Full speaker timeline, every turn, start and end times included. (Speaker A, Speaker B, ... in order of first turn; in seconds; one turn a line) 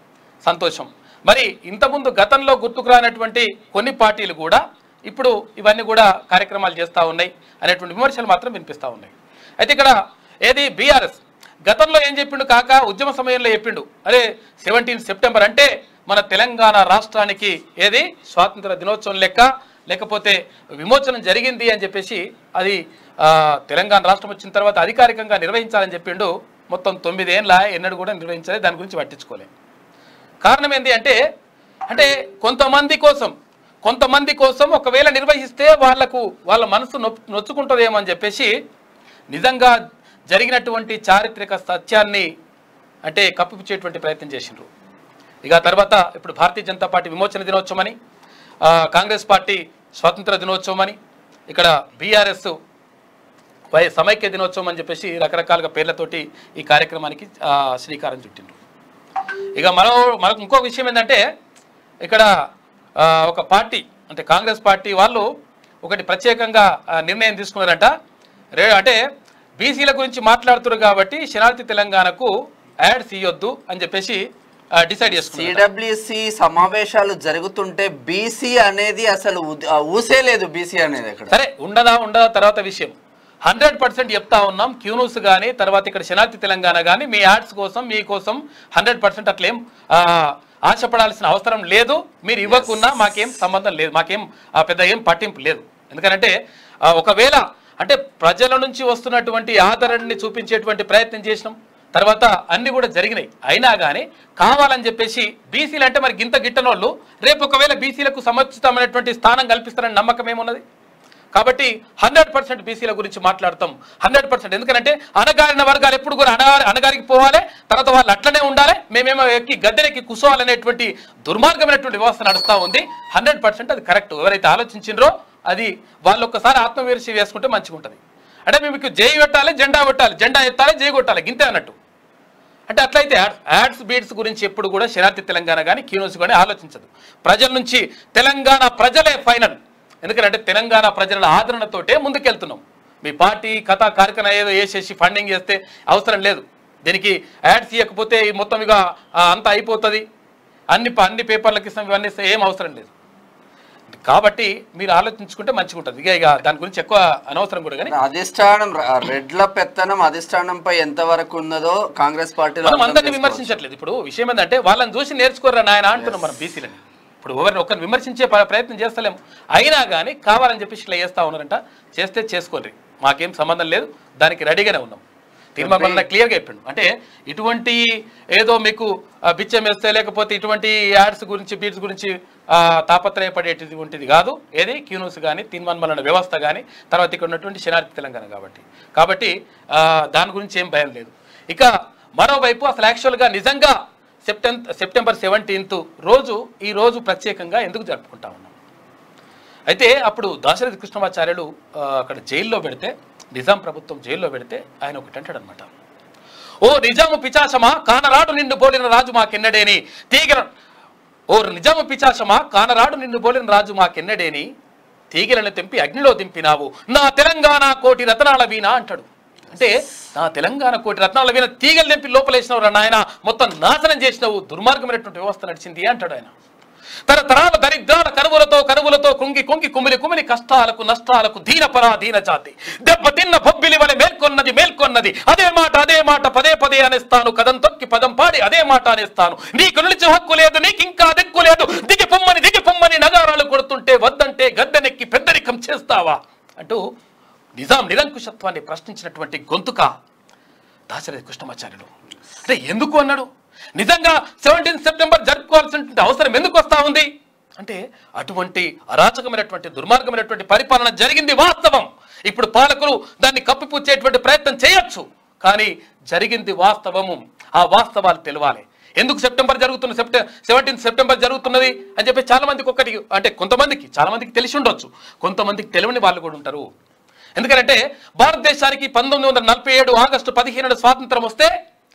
Speaker A: 0.4-9.9
Speaker A: 10.4-29.5
Speaker A: 30.4-31.1
Speaker A: 31.9-33.3
Speaker A: 33.8-38.5
Speaker A: 39.3-39.8
Speaker A: 40.3-42.3
Speaker A: 43.0-44.7
Speaker A: 45.4-47.9
Speaker A: 48.6-51.0
Speaker A: 51.5-52.5
Speaker A: 53.7-58.5
Speaker A: 59.6-61.2
Speaker A: 63.0-65.3
Speaker A: 65.8-67.9
Speaker A: 68.6-69.0
Speaker A: 69.6-72.3
Speaker A: 72.8-74.2
Speaker A: 74.8-75.6
Speaker B: 75.2-81.3
Speaker A: 81.3-82.9
Speaker A: 83.4-96.3
Speaker B: 92.4-93.2
Speaker A: 96.9-110.6
Speaker A: 111.3-131.7
Speaker A: 132.7-150.0
Speaker A: 150.7-152.9
Speaker A: 153.9-157.9
Speaker B: 157.9-163.6
Speaker A: 162.6-175.0
Speaker B: 165.9-166.2
Speaker A: 175.6-177.8
Speaker B: 175.6-176.0
Speaker A: 178.3-198.5
Speaker A: 199.7-205.7
Speaker A: 206.6-210.5
Speaker A: 211.3-214.5
Speaker A: 215.1-226.3
Speaker A: 227.1-246.8
Speaker A: 247.6-249.9
Speaker A: 250.9-251.9
Speaker A: 252.4-276.7
Speaker A: 277.4-281.5